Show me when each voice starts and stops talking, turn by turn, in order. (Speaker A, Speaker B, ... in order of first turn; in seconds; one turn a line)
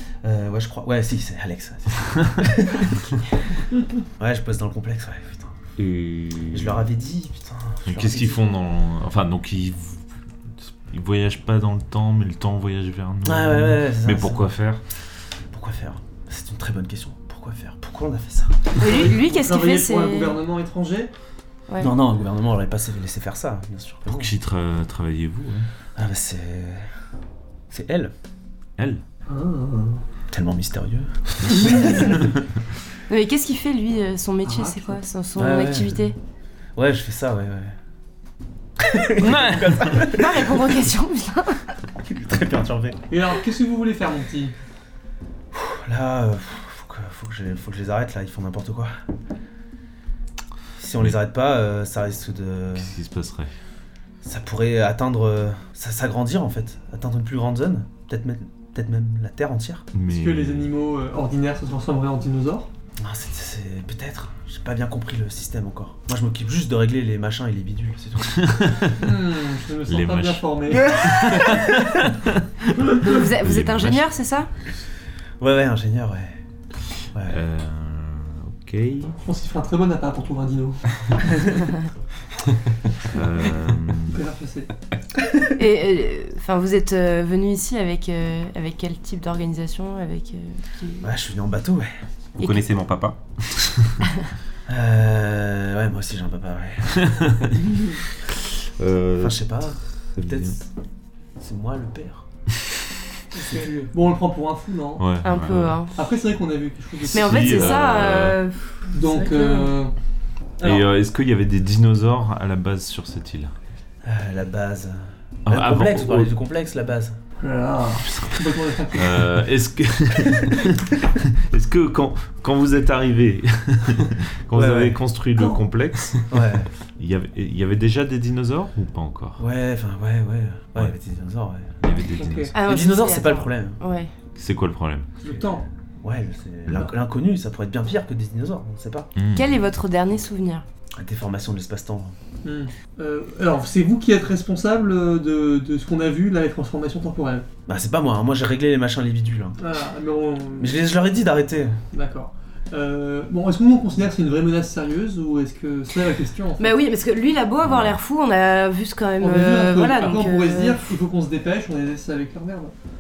Speaker A: 0.2-3.1
Speaker A: 4.2-5.5
Speaker B: 5.8-6.8
Speaker A: 6.5-8.4
Speaker B: 7.8-14.8
Speaker A: 13.2-14.5
Speaker A: 15.5-18.8
Speaker C: 18.8-20.4
Speaker D: 18.8-21.1
Speaker C: 21.7-21.9
Speaker A: 21.8-24.3
Speaker B: 24.1-25.7
Speaker A: 25.9-26.9
Speaker A: 27.7-28.1
Speaker B: 28.8-29.0
Speaker D: 29.3-30.0
Speaker A: 30.3-32.3
Speaker C: 33.1-36.1
Speaker D: 34.4-35.0
Speaker A: 35.4-36.0
Speaker A: 36.8-37.8
Speaker A: 38.8-40.7
Speaker B: 39.2-40.0
Speaker C: 39.8-41.6
Speaker A: 42.0-43.0
Speaker D: 43.1-44.5
Speaker A: 45.5-48.9
Speaker A: 50.8-52.9
Speaker B: 52.7-53.5
Speaker A: 54.2-59.8
Speaker B: 59.9-60.7
Speaker D: 60.1-62.7
Speaker A: 63.0-68.5
Speaker B: 68.4-68.9
Speaker D: 69.0-70.9
Speaker B: 69.8-74.1
Speaker A: 70.9-71.7
Speaker C: 73.0-74.5
Speaker A: 75.4-76.4
Speaker A: 77.1-77.4
Speaker B: 77.3-79.2
Speaker D: 79.2-81.5
Speaker B: 83.1-84.2
Speaker D: 84.1-84.7
Speaker C: 85.5-91.1
Speaker A: 91.0-91.9
Speaker E: 92.3-93.9
Speaker C: 92.4-92.7
Speaker A: 94.7-97.1
Speaker B: 97.0-97.5
Speaker B: 98.8-100.5
Speaker A: 99.2-100.7
Speaker A: 101.4-102.2
Speaker D: 103.3-105.1
Speaker B: 105.0-105.8
Speaker C: 105.2-106.0
Speaker E: 105.2-105.7
Speaker D: 105.9-107.9
Speaker C: 107.1-109.7
Speaker B: 107.1-108.4
Speaker D: 108.9-109.9
Speaker B: 110.6-113.5
Speaker A: 114.0-117.1
Speaker B: 115.5-116.3
Speaker D: 117.4-119.4
Speaker B: 118.1-118.4
Speaker B: 118.9-126.4
Speaker A: 124.5-125.0
Speaker D: 125.3-125.6
Speaker A: 126.3-126.7
Speaker B: 127.0-129.4
Speaker A: 129.4-131.7
Speaker B: 131.8-132.5
Speaker D: 132.2-132.6
Speaker C: 132.5-134.1
Speaker A: 132.5-133.8
Speaker B: 134.3-135.1
Speaker D: 135.2-135.6
Speaker A: 136.0-139.1
Speaker B: 139.1-139.5
Speaker C: 139.3-140.6
Speaker A: 141.0-142.1
Speaker D: 142.4-147.4
Speaker A: 147.7-149.7
Speaker D: 149.6-150.8
Speaker A: 150.6-151.7
Speaker D: 151.9-156.8
Speaker C: 156.6-160.8
Speaker B: 157.6-157.9
Speaker D: 159.2-162.7